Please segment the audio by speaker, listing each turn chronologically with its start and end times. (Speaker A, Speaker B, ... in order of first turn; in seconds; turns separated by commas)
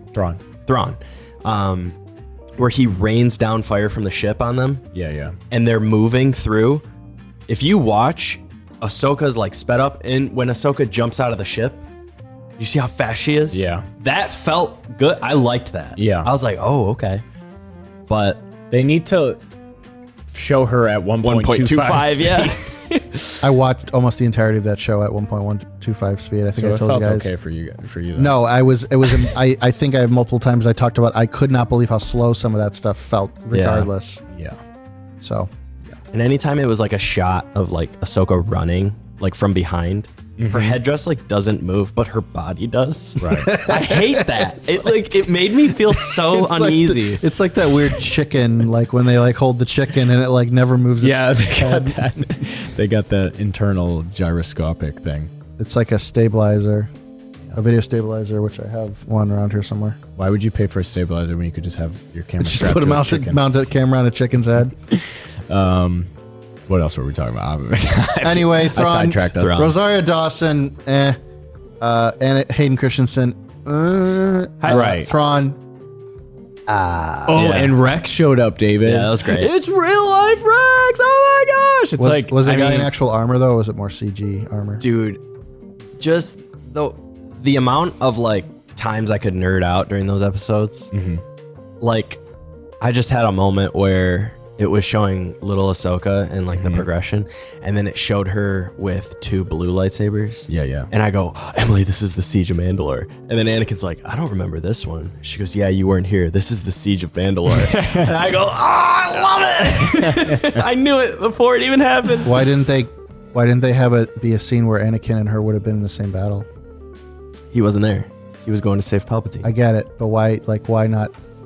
Speaker A: 0.1-0.4, Speaker B: 0.7-2.0, Speaker B: 2.6-4.8, Speaker A: 4.9-5.3, Speaker B: 5.5-6.8, Speaker B: 7.5-11.8, Speaker B: 12.6-17.2, Speaker A: 13.5-13.8, Speaker A: 16.0-16.3, Speaker B: 18.1-18.4, Speaker A: 18.7-19.4, Speaker A: 20.3-22.7, Speaker B: 21.2-23.4, Speaker C: 23.4-27.3, Speaker A: 26.5-28.4, Speaker C: 28.1-34.2, Speaker B: 33.5-33.9, Speaker A: 34.3-34.6, Speaker C: 35.2-35.5, Speaker B: 36.1-47.2, Speaker A: 40.4-40.8, Speaker A: 43.2-43.5, Speaker C: 43.3-45.1, Speaker C: 45.6-52.4, Speaker A: 51.0-55.3, Speaker C: 55.6-56.9, Speaker C: 57.5-60.0, Speaker A: 60.1-63.4, Speaker C: 62.4-64.7, Speaker A: 64.9-66.1, Speaker A: 66.7-69.7, Speaker C: 68.2-71.2, Speaker B: 69.3-69.7, Speaker C: 71.8-75.6, Speaker A: 74.7-75.1, Speaker C: 76.7-77.5, Speaker A: 77.3-82.9, Speaker B: 77.3-77.8, Speaker B: 78.8-79.5, Speaker C: 82.0-84.8, Speaker B: 84.8-85.2, Speaker B: 86.0-90.9, Speaker A: 90.9-91.2, Speaker B: 91.8-92.2, Speaker B: 92.8-112.4, Speaker A: 96.5-96.8, Speaker A: 100.5-100.9, Speaker A: 107.6-108.1, Speaker A: 109.9-110.6, Speaker C: 112.2-116.5, Speaker B: 117.5-119.5, Speaker C: 119.4-121.1